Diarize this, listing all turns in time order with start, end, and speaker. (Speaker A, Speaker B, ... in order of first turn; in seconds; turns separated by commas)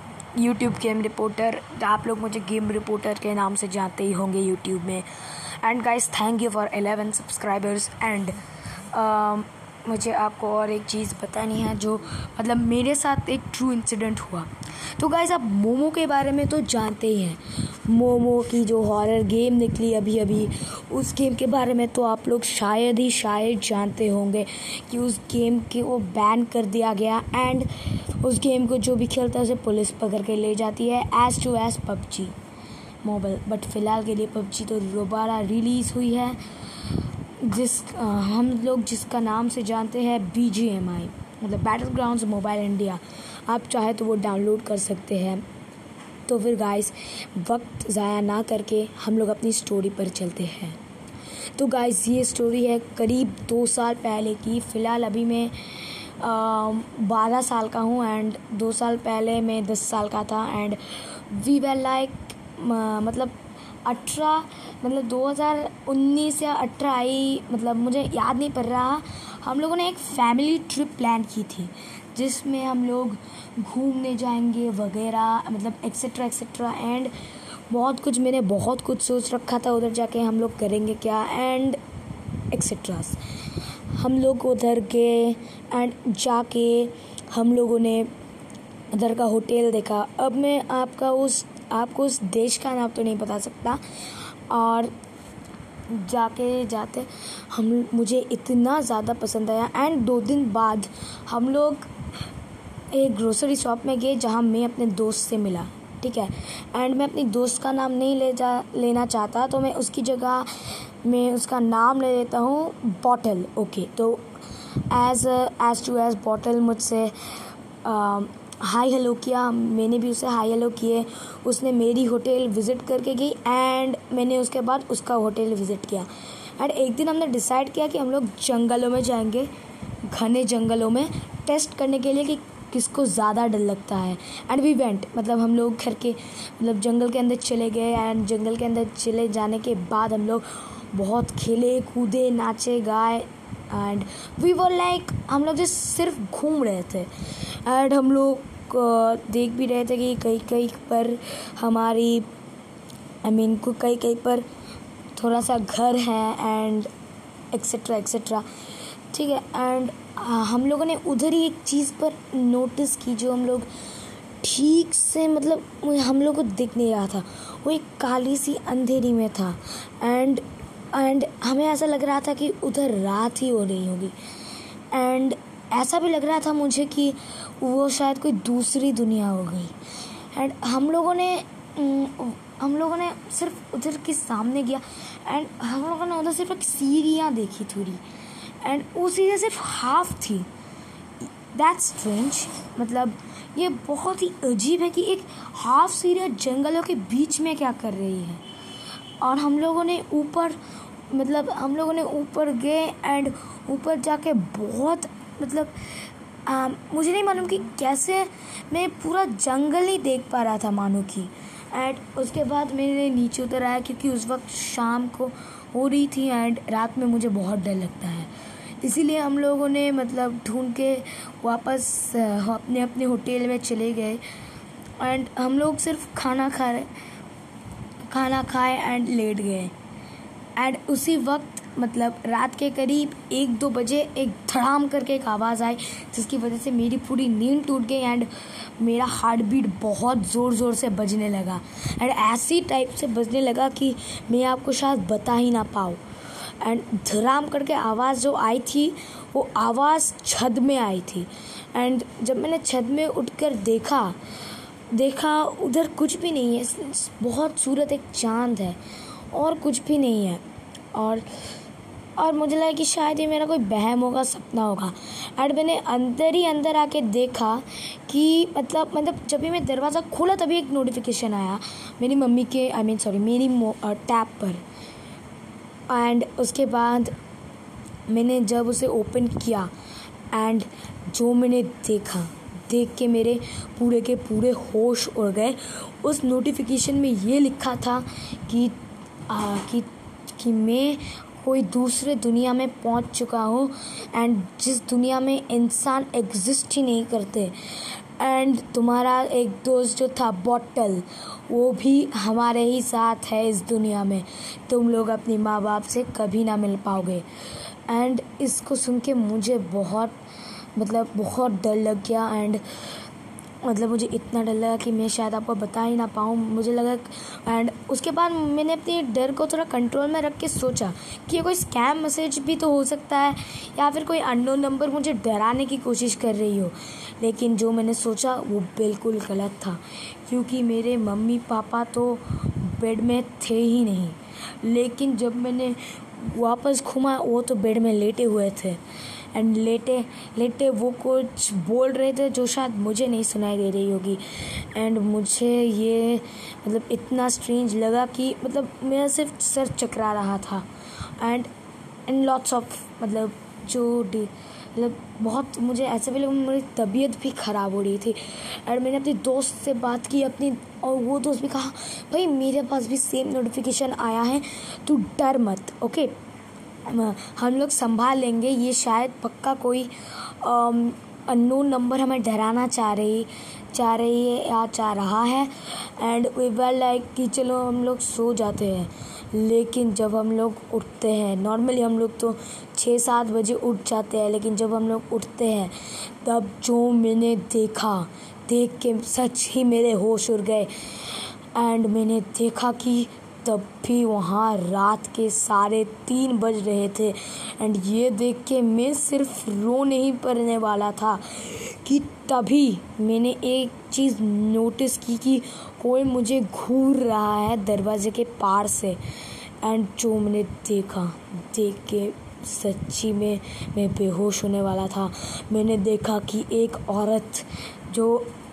Speaker A: 0.3-5.1, Speaker A: 5.6-32.3, Speaker A: 33.0-45.4, Speaker A: 46.3-50.8, Speaker A: 51.5-77.1, Speaker A: 77.7-81.8, Speaker A: 82.5-83.2, Speaker A: 83.9-88.1, Speaker A: 88.9-94.9, Speaker A: 95.9-101.9, Speaker A: 102.9-114.4, Speaker A: 114.9-117.2, Speaker A: 117.8-129.5, Speaker A: 130.0-152.3, Speaker A: 153.2-154.4, Speaker A: 155.2-156.9, Speaker A: 157.5-158.4, Speaker A: 159.1-163.7, Speaker A: 164.4-174.1, Speaker A: 174.9-179.8, Speaker A: 180.3-188.0, Speaker A: 188.6-190.5, Speaker A: 191.5-198.4, Speaker A: 199.2-200.6, Speaker A: 201.1-205.9, Speaker A: 206.4-224.2, Speaker A: 225.0-226.9, Speaker A: 228.1-229.7, Speaker A: 230.6-246.0, Speaker A: 246.6-254.2, Speaker A: 254.9-258.8, Speaker A: 259.3-260.4, Speaker A: 260.9-261.2, Speaker A: 262.2-274.6, Speaker A: 275.9-277.1, Speaker A: 278.1-279.7, Speaker A: 280.3-288.7, Speaker A: 289.3-307.2, Speaker A: 307.9-310.1, Speaker A: 310.8-312.6, Speaker A: 313.6-338.8, Speaker A: 339.3-350.7, Speaker A: 351.2-351.5, Speaker A: 352.1-366.1, Speaker A: 366.9-409.0, Speaker A: 409.6-418.3